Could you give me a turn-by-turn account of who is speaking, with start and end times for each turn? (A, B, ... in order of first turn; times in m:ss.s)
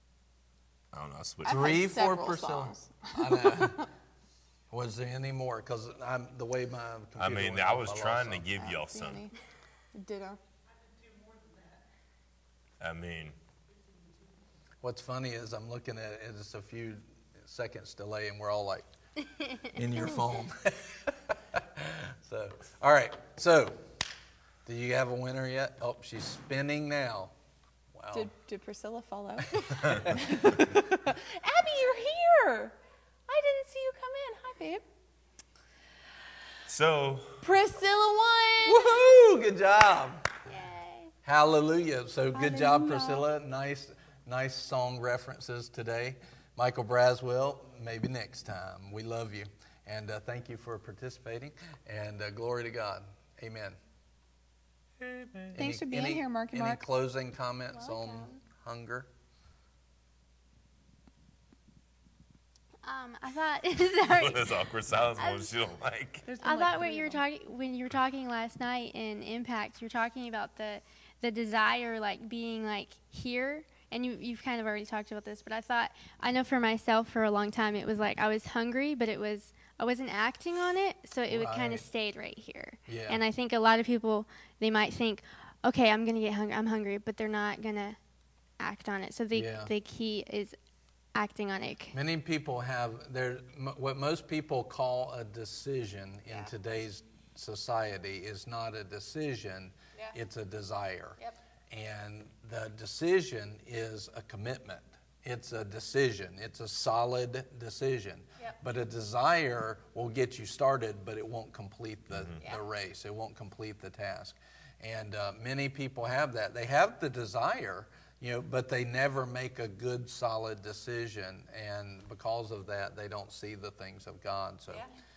0:00.9-0:01.7 A
0:01.4-0:03.9 B
0:01.4-0:03.9 C
0:04.7-0:08.4 C
0:07.2-0:09.2 A
0:08.6-0:09.3 B
0:10.0-0:10.4 B
0:12.8-0:13.4 A
0:14.8-0:18.9 C
0:19.6-0:23.9 C
0:24.7-0:27.3 C
0:28.0-0:28.3 C
0:28.1-0:32.8 B
0:29.5-0:30.7 C
0:33.3-0:34.8 B
0:36.7-0:37.4 A
0:37.4-0:39.0 B
0:38.6-0:40.3 C
0:40.4-0:41.1 D
0:41.2-0:53.8 C
0:42.3-0:43.2 B
0:55.0-0:55.6 A
0:55.5-0:59.1 C
0:55.6-0:56.8 B
0:57.7-0:58.4 D
1:02.8-1:04.6 D
1:04.0-1:06.3 A
1:05.2-1:05.5 D
1:06.3-1:07.2 B
1:06.4-1:28.0 D
1:21.3-1:21.9 C
1:22.9-1:23.2 C
1:28.6-1:30.6 D
1:29.3-1:29.7 C
1:31.1-1:32.0 D
1:31.9-1:41.2 C
1:41.7-2:04.8 C
1:52.1-1:52.4 A